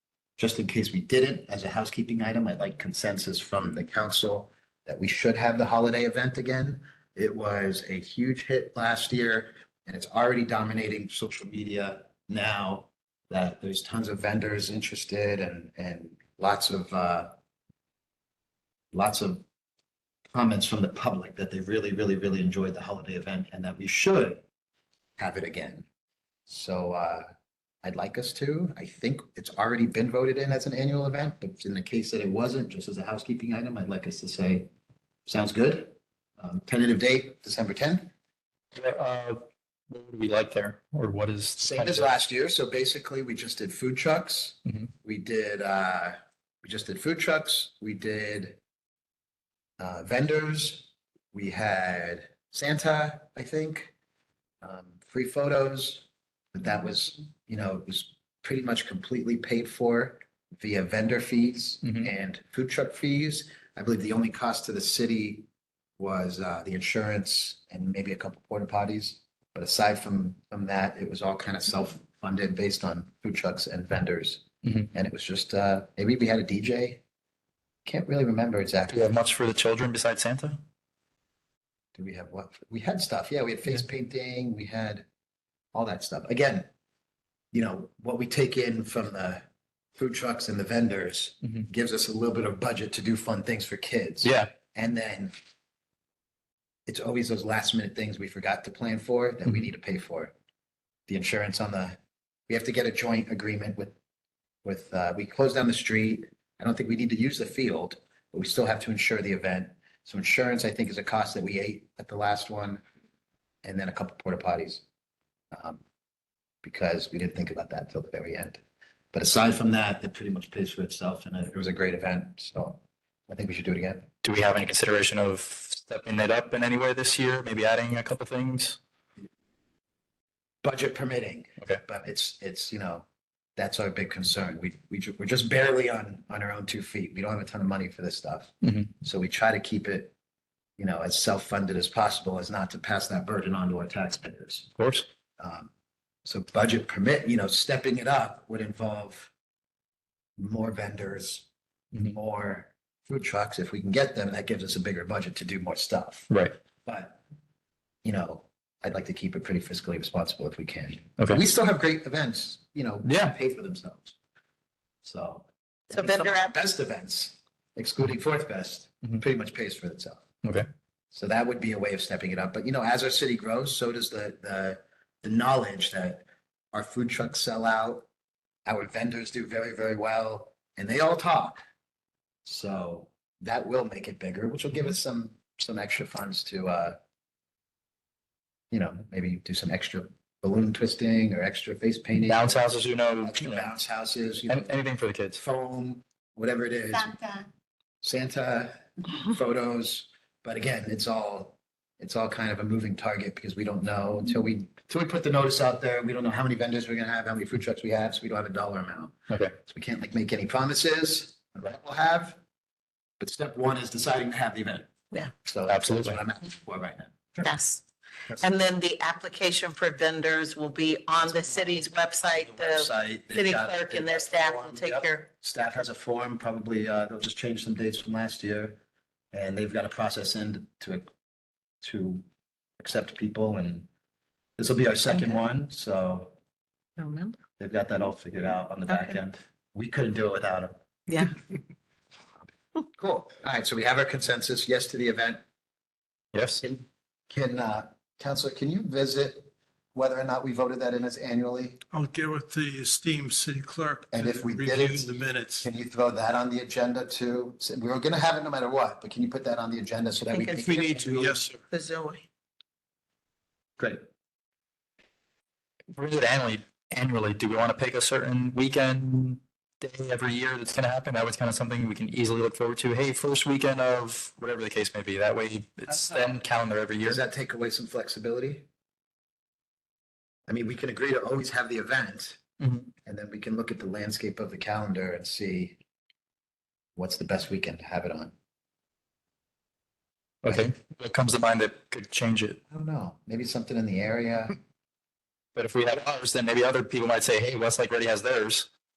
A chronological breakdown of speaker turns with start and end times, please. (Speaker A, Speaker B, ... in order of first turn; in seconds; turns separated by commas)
Speaker A: 0.4-17.3, Speaker A: 18.9-19.4, Speaker A: 20.3-24.4, Speaker A: 25.2-25.9, Speaker A: 26.5-27.3, Speaker A: 27.8-34.7, Speaker A: 35.3-38.1, Speaker B: 38.8-42.1, Speaker A: 41.6-48.6, Speaker A: 49.8-53.9, Speaker A: 54.6-65.5, Speaker B: 61.8-62.1, Speaker A: 66.0-77.0, Speaker A: 77.8-79.1, Speaker B: 78.9-80.6, Speaker A: 82.0-85.0, Speaker A: 85.7-86.7, Speaker A: 87.5-89.4, Speaker A: 90.0-95.3, Speaker B: 94.2-94.5, Speaker A: 96.9-100.3, Speaker A: 101.1-102.0, Speaker A: 102.5-104.0, Speaker A: 104.7-112.8, Speaker A: 113.6-114.8, Speaker A: 115.5-115.8, Speaker A: 116.6-118.6, Speaker A: 119.1-124.1, Speaker B: 124.2-128.8, Speaker A: 130.6-133.1, Speaker A: 133.6-140.1, Speaker B: 138.6-138.9, Speaker A: 140.8-144.7, Speaker B: 144.8-145.1, Speaker A: 145.4-145.7, Speaker A: 146.2-149.3, Speaker A: 150.4-151.5, Speaker A: 152.0-156.3, Speaker B: 156.3-156.6, Speaker A: 156.8-157.2, Speaker A: 158.0-164.2, Speaker B: 163.0-163.3, Speaker A: 165.0-170.2, Speaker C: 165.9-166.5, Speaker A: 171.1-178.1, Speaker A: 178.7-181.6, Speaker A: 182.4-187.0, Speaker A: 188.7-194.7, Speaker B: 192.3-193.7, Speaker B: 194.5-195.4, Speaker A: 195.4-197.4, Speaker A: 198.0-212.4, Speaker A: 213.2-214.9, Speaker A: 215.4-217.5, Speaker B: 215.7-216.2, Speaker C: 217.4-217.8, Speaker C: 218.4-225.3, Speaker A: 221.3-221.8, Speaker A: 222.3-228.8, Speaker A: 229.3-231.1, Speaker A: 231.8-232.2, Speaker A: 232.8-233.9, Speaker A: 234.6-236.3, Speaker C: 237.0-237.4, Speaker A: 237.6-240.8, Speaker C: 238.9-239.2, Speaker C: 241.1-241.3, Speaker A: 242.9-245.4, Speaker B: 246.3-246.6, Speaker A: 246.6-251.8, Speaker D: 251.9-255.7, Speaker A: 254.1-261.4, Speaker C: 260.3-261.1, Speaker D: 260.6-261.6, Speaker C: 261.7-262.3, Speaker B: 265.9-277.2, Speaker A: 277.0-278.7, Speaker A: 280.5-282.4, Speaker B: 282.6-282.9, Speaker A: 283.1-285.8, Speaker A: 287.0-288.3, Speaker B: 290.4-292.6, Speaker A: 292.7-294.6, Speaker B: 295.6-298.7